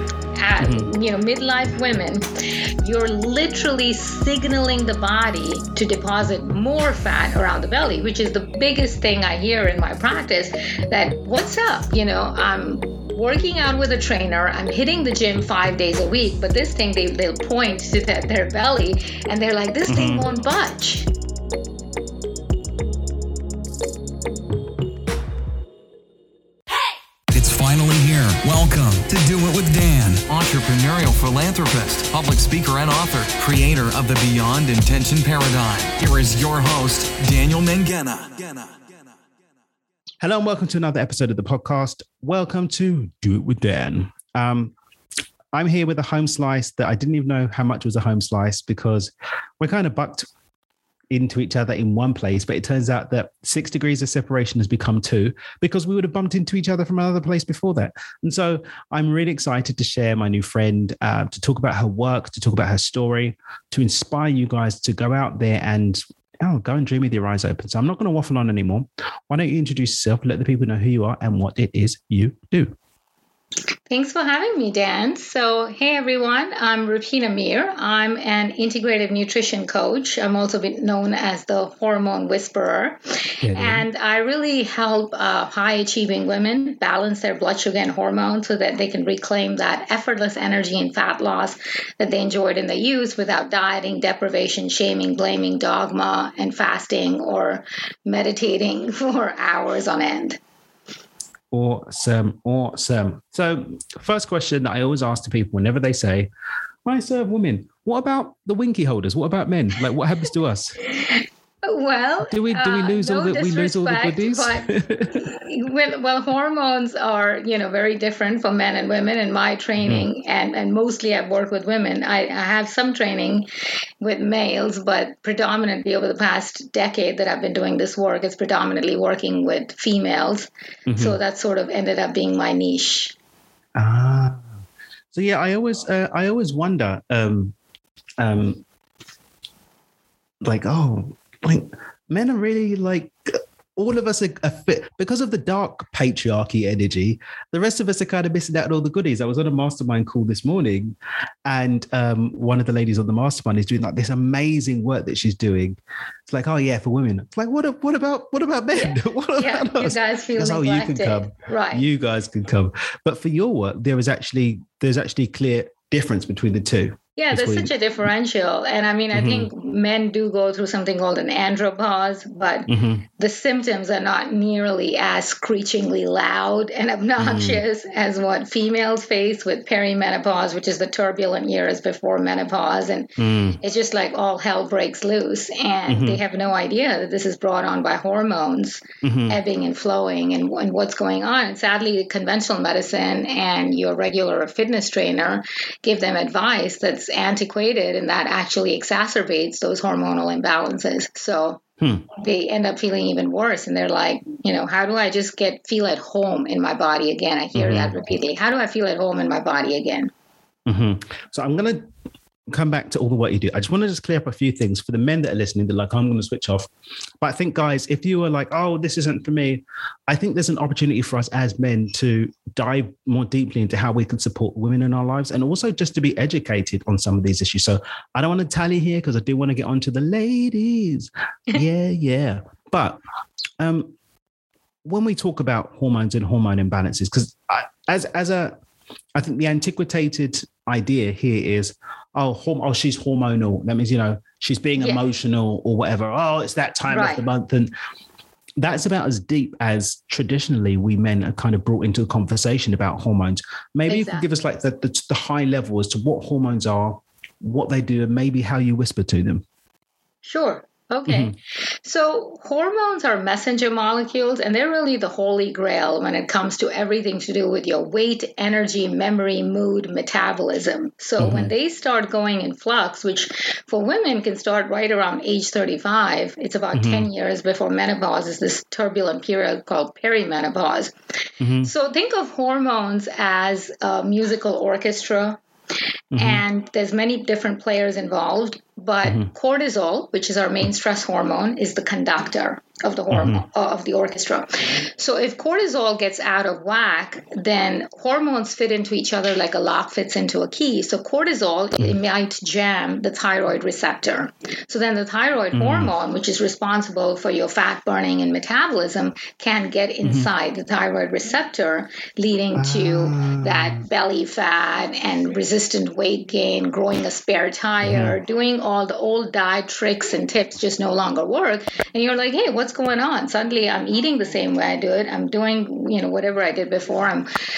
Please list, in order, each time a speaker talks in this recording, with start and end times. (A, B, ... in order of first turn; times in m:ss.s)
0:00.4-0:02.3 A
0:00.6-0:00.9 B
0:02.8-0:21.1 A
0:19.9-0:20.3 B
0:27.3-0:38.8 C
0:40.2-0:44.8 B
0:45.5-0:50.3 B
0:51.1-1:12.8 B
1:13.9-1:23.0 A
1:23.4-1:23.9 B
1:23.6-1:40.4 A
1:41.5-1:46.3 B
1:46.8-1:50.8 B
1:51.0-2:03.5 A
1:52.3-1:55.2 B
1:59.8-2:00.1 B
2:04.0-2:13.2 A
2:10.9-2:11.2 B
2:13.8-2:14.5 B
2:15.1-2:17.6 B
2:18.2-2:18.6 B
2:20.4-2:47.7 B
2:38.8-2:41.9 A
2:47.2-3:21.6 A
2:49.1-2:49.5 B
2:52.7-2:53.0 B
2:57.2-2:57.6 B
3:03.2-3:03.6 B
3:05.9-3:06.2 B
3:09.0-3:09.4 B
3:21.8-3:22.1 B
3:22.1-3:30.1 A
3:27.6-3:28.0 B
3:30.7-3:31.9 B
3:32.5-3:36.7 B
3:37.2-3:53.0 B
3:53.6-3:54.0 B
3:54.8-3:58.6 B
3:59.2-4:07.7 B
4:06.9-4:07.2 A
4:08.6-4:19.4 B
4:13.9-4:14.3 A
4:20.2-4:40.9 A
4:21.1-4:21.4 B
4:31.2-4:31.5 B
4:36.7-4:37.1 B
4:41.4-4:41.7 B
4:41.6-4:45.4 A
4:46.1-4:46.4 B
4:46.2-5:27.3 A
4:49.0-4:49.3 B
4:53.1-4:53.4 B
5:05.5-5:05.9 B
5:10.0-5:10.3 B
5:12.6-5:13.8 B
5:17.8-5:18.2 B